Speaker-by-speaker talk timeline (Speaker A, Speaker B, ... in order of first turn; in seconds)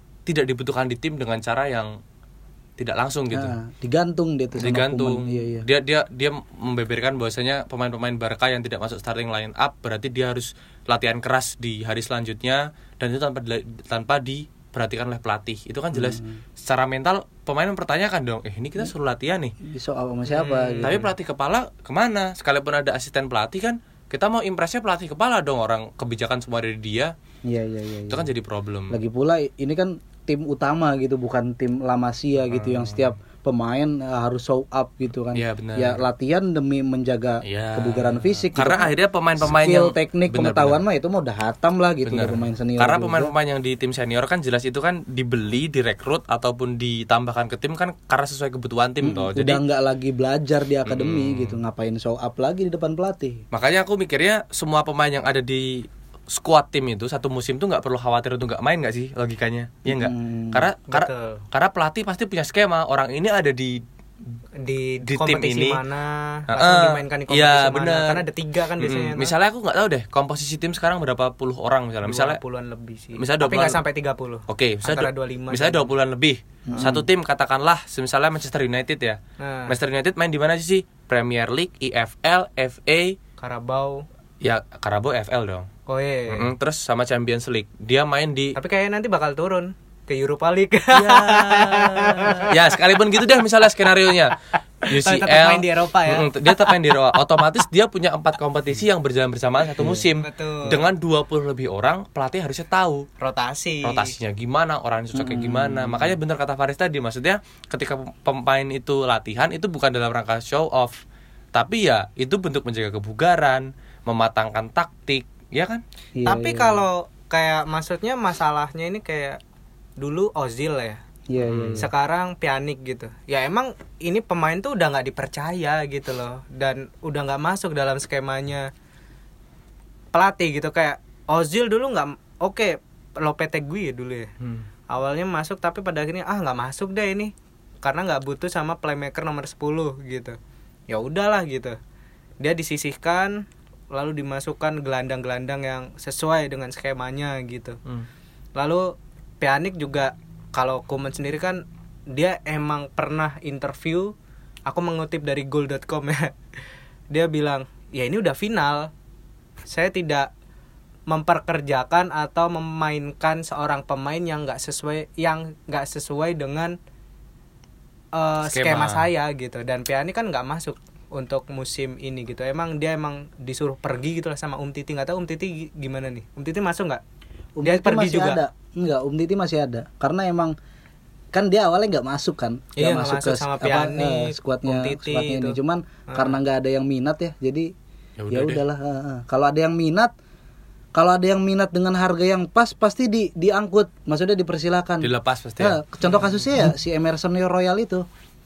Speaker A: 0.3-1.9, 2.8-3.6, 4.6-19.5, 20.8-27.1, 28.1-29.0, 32.5-33.1, 35.3-36.0, 37.5-40.8, 42.0-49.6, 50.9-51.6, 53.5-63.8, 65.0-65.8, 66.5-68.2, 68.8-72.4, 73.2-73.8, 74.5-83.2, 84.4-85.7, 86.3-88.6, 90.9-103.1, 103.8-111.0, 111.5-115.8, 121.4-121.9, 134.4-134.7, 168.5-169.1, 188.2-188.6, 195.0-195.8
Speaker B: 3.3-5.7, 15.9-16.4, 19.6-21.1, 27.4-28.3, 28.9-43.3, 49.0-53.4, 59.9-60.7, 76.7-77.1, 99.8-100.1, 105.1-106.2, 116.2-116.9, 121.3-121.9, 177.6-180.6, 181.3-187.7, 188.3-190.1, 190.9-198.1
Speaker C: 20.3-21.1, 60.9-61.4, 64.6-69.3, 72.0-75.9, 79.4-79.8, 83.4-84.0, 85.9-86.5, 88.5-92.8, 94.8-97.4, 100.2-100.9, 103.2-104.1, 116.2-119.4, 120.0-121.0, 121.8-128.7, 130.1-134.3, 134.9-140.4, 140.9-141.8, 142.4-147.8, 148.6-154.1, 154.7-156.3, 157.1-158.9, 159.7-160.3, 161.1-166.8, 168.1-177.0, 177.6-178.4, 182.8-185.6, 186.1-186.4